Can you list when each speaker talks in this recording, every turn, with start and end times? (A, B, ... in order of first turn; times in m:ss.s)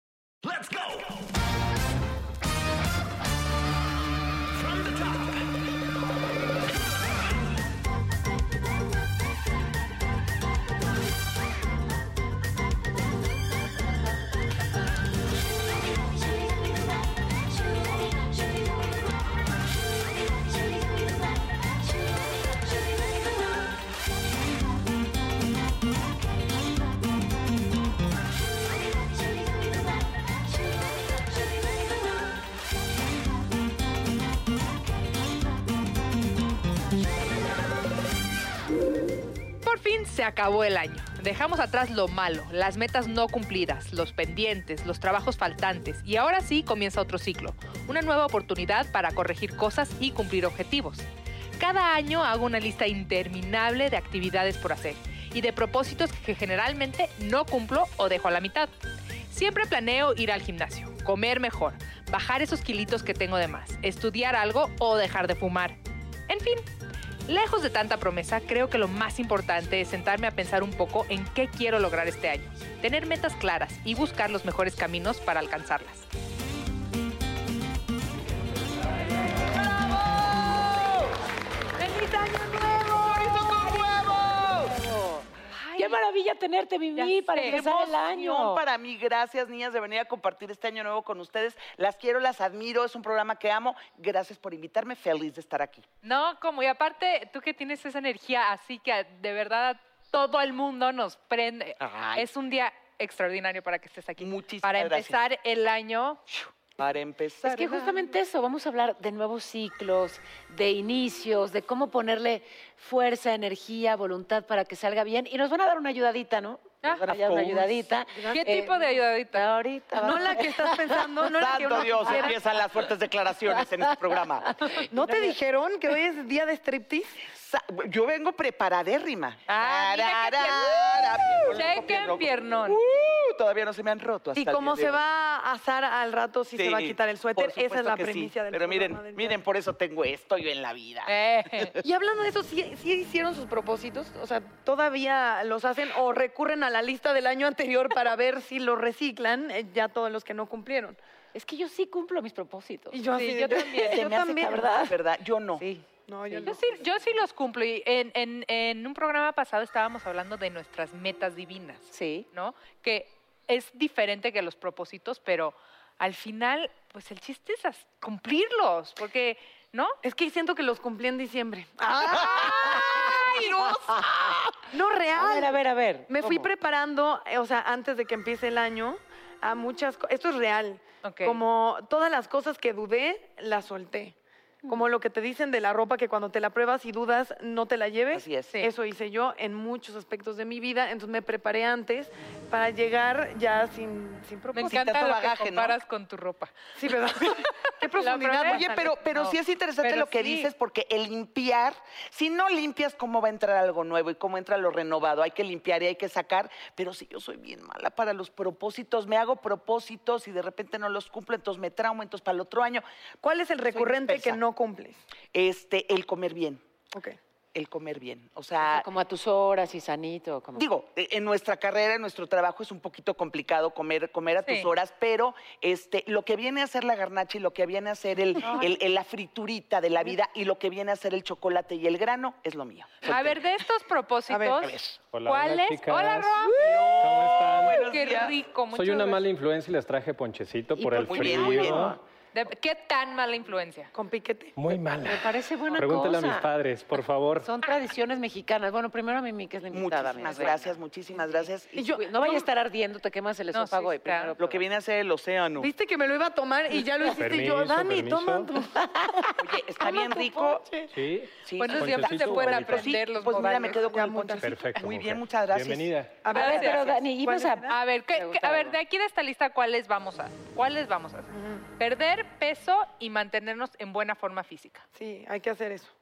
0:39.6-0:51.0 A
0:51.6-0:58.7 A
0:59.3-1:05.8 A
1:06.3-1:06.6 A
1:07.3-1:16.0 A
1:21.8-1:23.4 A
1:22.7-1:24.8 B
1:24.9-1:25.2 C
1:25.5-1:26.0 A
1:25.8-1:28.6 C
1:27.0-1:27.6 A
1:27.4-1:35.8 B
1:36.0-1:46.2 A
1:41.8-1:42.3 B
1:44.2-1:45.2 B
1:46.8-1:47.9 B
1:47.4-2:01.3 C
1:57.0-1:57.9 B
1:58.1-1:58.6 D
1:58.3-1:59.5 A
1:59.9-2:02.4 D
2:01.4-2:04.6 B
2:04.8-2:07.2 D
2:07.2-2:15.0 B
2:09.5-2:12.8 A
2:14.4-2:19.4 D
2:16.6-2:21.8 B
2:21.0-2:21.7 A
2:21.8-2:31.0 D
2:31.3-2:35.0 C
2:32.9-2:34.7 D
2:33.7-2:35.6 B
2:35.6-2:36.6 C
2:36.0-2:36.9 D
2:36.4-2:50.0 A
2:41.9-2:42.3 C
2:50.0-2:53.4 D
2:52.1-2:54.5 B
2:54.7-3:04.1 D
2:55.1-2:56.5 C
3:01.0-3:01.4 A
3:04.7-3:14.8 D
3:08.1-3:08.5 B
3:14.5-3:16.5 A
3:14.6-3:15.8 B
3:16.8-3:19.3 D
3:17.9-3:18.6 A
3:18.4-3:32.8 B
3:19.8-3:20.5 A
3:33.2-3:35.0 D
3:33.7-3:34.4 B
3:35.3-3:36.6 B
3:37.5-3:38.9 B
3:38.6-3:40.6 C
3:40.6-3:53.4 B
3:48.4-3:48.6 A
3:48.4-3:48.7 D
3:53.0-3:54.7 A
3:54.3-3:54.7 D
3:54.6-3:55.0 B
3:55.1-3:57.8 E
3:55.2-3:57.0 A
3:56.6-3:58.4 B
3:57.5-3:59.2 A
3:58.7-4:02.0 E
4:00.8-4:02.0 C
4:01.0-4:02.0 B
4:02.3-4:03.9 A
4:03.9-4:04.6 D
4:04.6-4:07.5 E
4:05.0-4:06.5 C
4:07.3-4:10.6 C
4:09.7-4:11.9 B
4:10.2-4:10.6 A
4:11.7-4:12.5 D
4:11.9-4:14.6 C
4:13.5-4:14.4 A
4:14.4-4:15.7 B
4:15.6-4:19.2 D
4:17.0-4:18.5 E
4:18.8-4:19.3 C
4:19.4-4:20.7 B
4:19.8-4:20.9 D
4:20.9-4:22.9 E
4:21.4-4:25.9 B
4:21.6-4:23.8 A
4:23.2-4:24.6 D
4:24.4-4:26.2 E
4:26.2-4:27.8 D
4:26.3-4:28.8 C
4:26.3-4:27.0 A
4:27.7-4:34.8 A
4:31.3-4:31.6 D
4:35.0-4:35.9 D